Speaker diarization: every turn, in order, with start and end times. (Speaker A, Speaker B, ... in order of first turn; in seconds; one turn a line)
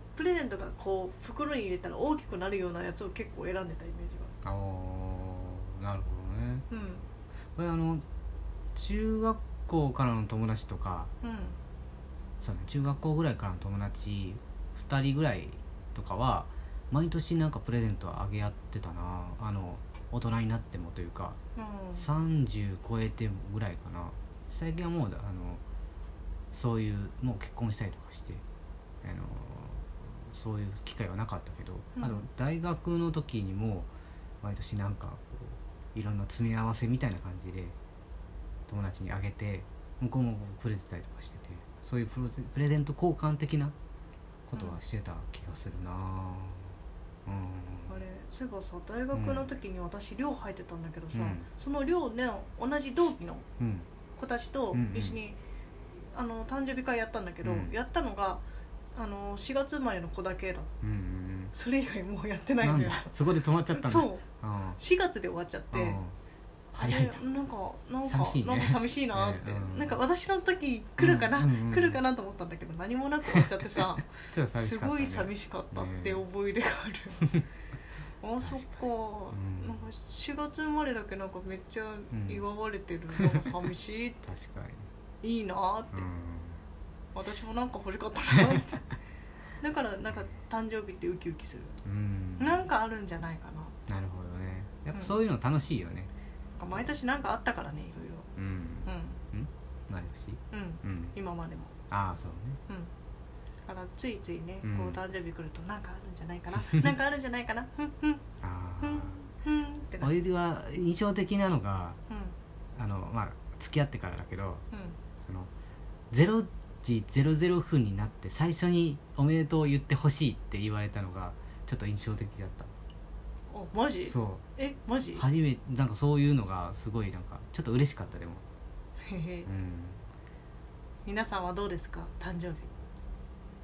Speaker A: 0.1-4.4
Speaker B: 4.4-6.7
Speaker A: 6.7-7.0
Speaker B: 7.5-8.0
Speaker B: 8.8-11.1
Speaker A: 11.2-11.6
Speaker B: 12.4-21.4
Speaker A: 21.6-22.1
Speaker B: 21.9-25.6
Speaker B: 26.5-28.4
Speaker B: 29.0-33.9
Speaker A: 32.0-32.2
Speaker B: 34.4-37.8
Speaker B: 38.7-43.8
Speaker B: 44.5-46.7
Speaker B: 47.2-47.9
Speaker A: 47.9-53.4
Speaker B: 49.1-49.5
Speaker B: 51.1-51.5
Speaker B: 53.6-53.9
Speaker A: 54.1-55.4
Speaker B: 54.7-55.2
Speaker A: 56.1-58.4
Speaker B: 57.4-57.7
Speaker A: 58.9-60.7
Speaker B: 60.8-61.5
Speaker A: 61.5-63.1
Speaker B: 62.6-64.8
Speaker A: 63.7-64.2
Speaker A: 64.8-66.0
Speaker B: 65.7-66.1
Speaker B: 66.7-67.2
Speaker A: 66.8-77.2
Speaker B: 68.0-70.0
Speaker B: 71.0-72.0
Speaker B: 74.1-76.2
Speaker A: 78.2-84.2
Speaker B: 78.4-78.8
Speaker B: 79.3-79.8
Speaker B: 82.1-82.4
Speaker B: 83.1-83.4
Speaker B: 84.2-84.9
Speaker A: 85.2-86.0
Speaker B: 85.9-86.6
Speaker A: 87.1-88.9
Speaker A: 89.6-91.8
Speaker B: 91.8-92.7
Speaker A: 92.4-93.8
Speaker B: 93.9-96.1
Speaker A: 96.6-98.3
Speaker B: 98.4-101.1
Speaker A: 98.9-99.2
Speaker A: 100.5-101.8
Speaker B: 101.9-102.6
Speaker A: 103.6-108.2
Speaker B: 104.6-105.0
Speaker B: 108.4-109.2
Speaker A: 108.8-110.2
Speaker B: 110.0-112.0
Speaker A: 112.1-112.3
Speaker B: 112.8-114.6
Speaker A: 114.7-115.0
Speaker B: 115.2-115.5
Speaker B: 116.1-122.7
Speaker A: 123.5-125.2
Speaker B: 124.1-124.4
Speaker B: 125.1-128.4
Speaker A: 129.0-129.5
Speaker B: 129.4-130.0
Speaker A: 131.1-132.7